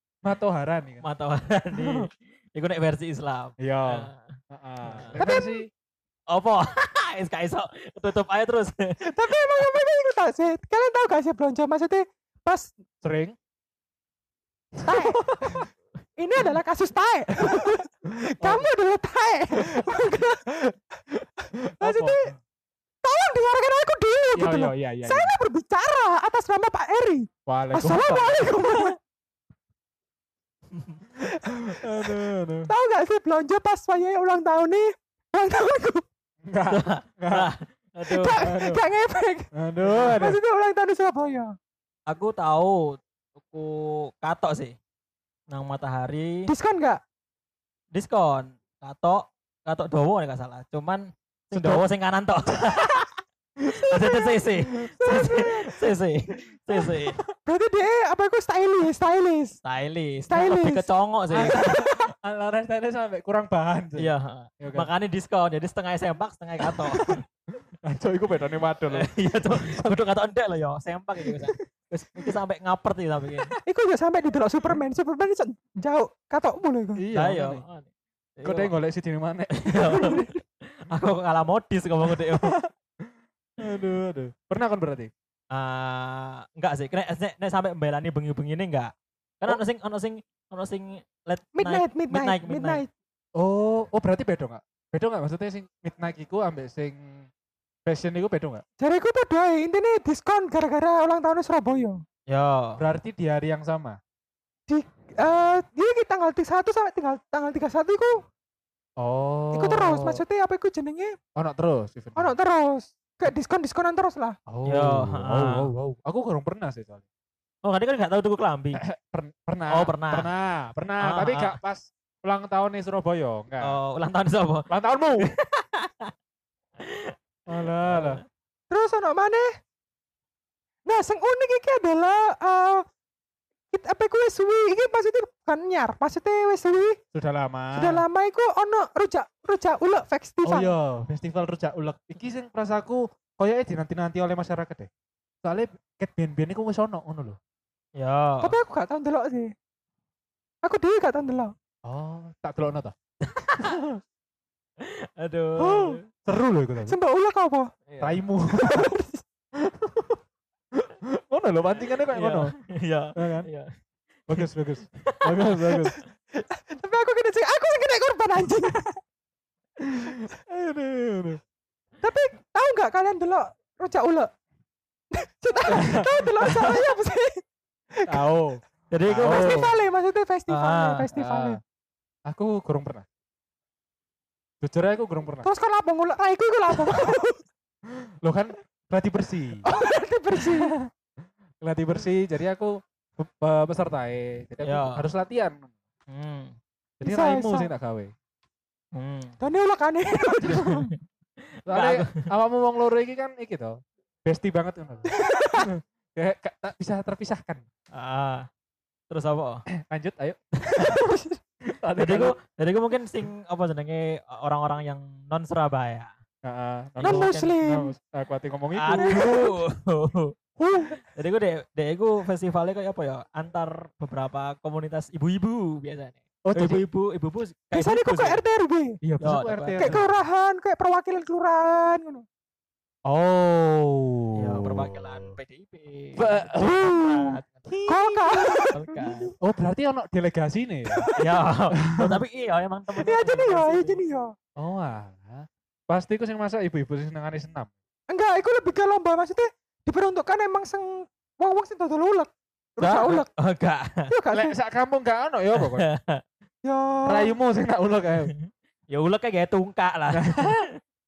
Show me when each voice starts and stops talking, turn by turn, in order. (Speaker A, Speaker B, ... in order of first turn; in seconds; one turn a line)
Speaker A: 0.2-1.0
Speaker B: 1.0-4.2
Speaker A: 1.7-2.0
Speaker A: 3.6-5.7
Speaker B: 4.8-5.2
Speaker C: 5.2-5.6
Speaker B: 6.3-9.3
Speaker C: 9.0-12.7
Speaker A: 13.0-13.3
Speaker A: 14.8-15.7
Speaker C: 14.8-15.7
Speaker C: 16.2-20.5
Speaker A: 17.4-17.6
Speaker A: 18.2-18.7
Speaker A: 19.7-20.0
Speaker A: 21.6-22.3
Speaker C: 21.8-22.3
Speaker C: 23.0-29.0
Speaker A: 24.3-25.3
Speaker A: 27.4-28.5
Speaker A: 31.4-32.7
Speaker C: 32.7-36.0
Speaker A: 36.4-37.5
Speaker B: 36.7-38.4
Speaker C: 38.1-41.5
Speaker A: 38.3-38.8
Speaker A: 39.5-40.4
Speaker B: 42.1-44.8
Speaker B: 45.5-46.5
Speaker C: 46.5-47.0
Speaker B: 47.9-53.1
Speaker A: 51.5-51.8
Speaker B: 53.7-57.2
Speaker A: 53.8-55.6
Speaker C: 55.2-55.4
Speaker A: 56.7-57.2
Speaker C: 57.4-59.6
Speaker B: 59.6-61.6
Speaker C: 60.3-60.9
Speaker A: 61.3-64.9
Speaker C: 61.4-62.0
Speaker B: 64.0-67.2
Speaker A: 66.7-67.2
Speaker A: 67.8-70.0
Speaker B: 68.9-73.5
Speaker C: 73.6-77.0
Speaker A: 77.0-77.6
Speaker B: 77.1-78.7
Speaker A: 78.4-80.2
Speaker B: 79.5-82.5
Speaker C: 79.9-80.3
Speaker A: 82.1-82.7
Speaker A: 83.6-85.1
Speaker B: 85.5-92.8
Speaker C: 91.5-92.9
Speaker A: 93.4-97.3
Speaker A: 97.8-98.6
Speaker C: 98.8-102.0
Speaker B: 102.3-102.8
Speaker A: 102.8-104.0
Speaker C: 104.7-108.2
Speaker A: 109.0-110.2
Speaker C: 109.5-111.2
Speaker A: 111.3-112.3
Speaker C: 112.2-114.4
Speaker A: 114.5-117.0
Speaker B: 114.6-115.7
Speaker B: 117.6-118.8
Speaker A: 118.7-123.8
Speaker B: 119.7-120.3
Speaker B: 121.0-121.6
Speaker B: 123.6-126.1
Speaker A: 124.7-125.3
Speaker B: 126.8-127.2
Speaker A: 127.5-128.2
Speaker B: 127.9-128.2
Speaker C: 128.7-129.5
Speaker C: 130.8-132.8
Speaker C: 133.7-137.0
Speaker A: 137.1-138.0
Speaker C: 137.7-140.7
Speaker A: 140.4-144.9
Speaker A: 145.4-147.4
Speaker B: 147.9-148.6
Speaker C: 148.4-149.5
Speaker C: 150.6-151.5
Speaker A: 151.8-152.9
Speaker B: 153.2-153.7
Speaker A: 153.6-154.0
Speaker B: 154.8-156.0
Speaker A: 155.6-157.0
Speaker C: 156.8-157.7
Speaker B: 157.9-158.2
Speaker A: 158.0-158.9
Speaker C: 158.5-159.2
Speaker A: 159.6-160.2
Speaker A: 160.7-162.5
Speaker B: 162.1-163.7
Speaker A: 163.2-163.5
Speaker A: 164.3-166.0
Speaker B: 165.0-166.0
Speaker C: 166.4-169.0
Speaker A: 169.8-171.4
Speaker C: 172.0-174.3
Speaker C: 175.1-177.4
Speaker A: 175.7-176.8
Speaker A: 178.1-179.7
Speaker B: 178.9-179.7
Speaker C: 179.2-181.6
Speaker B: 180.5-181.1
Speaker A: 181.1-181.6
Speaker A: 182.3-183.1
Speaker A: 184.6-185.5
Speaker C: 185.4-187.4
Speaker A: 188.2-189.7
Speaker C: 189.6-190.7
Speaker A: 190.5-190.9
Speaker A: 191.6-195.7
Speaker B: 194.6-195.1
Speaker B: 196.1-196.6
Speaker A: 197.0-198.1
Speaker C: 197.0-197.7
Speaker B: 198.9-199.3
Speaker C: 199.4-200.9
Speaker B: 200.5-200.9
Speaker B: 201.7-202.3
Speaker A: 201.7-207.6
Speaker C: 205.1-205.7
Speaker B: 207.9-208.5
Speaker B: 209.1-209.7
Speaker A: 209.7-211.0
Speaker C: 210.7-211.4
Speaker A: 211.7-212.3
Speaker B: 212.0-216.1
Speaker A: 216.4-219.4
Speaker B: 217.0-217.5
Speaker C: 217.0-217.9
Speaker B: 218.7-220.3
Speaker C: 218.9-219.5
Speaker C: 220.6-220.9
Speaker B: 220.9-228.4
Speaker A: 226.4-226.8
Speaker C: 227.7-229.0
Speaker A: 229.0-230.1
Speaker B: 229.2-230.0
Speaker C: 229.8-232.2
Speaker A: 233.1-235.3
Speaker B: 234.4-237.7
Speaker A: 236.2-238.7
Speaker C: 237.9-239.2
Speaker B: 238.7-239.3
Speaker A: 239.4-241.0
Speaker C: 240.9-241.3
Speaker B: 241.2-244.0
Speaker A: 241.7-242.2
Speaker C: 243.0-244.3
Speaker A: 244.6-247.7
Speaker C: 248.1-253.3
Speaker B: 253.0-254.1
Speaker C: 254.1-254.5
Speaker A: 254.3-255.9
Speaker B: 255.5-256.2
Speaker C: 256.6-257.3
Speaker A: 257.1-258.3
Speaker B: 258.3-260.8
Speaker A: 260.1-260.6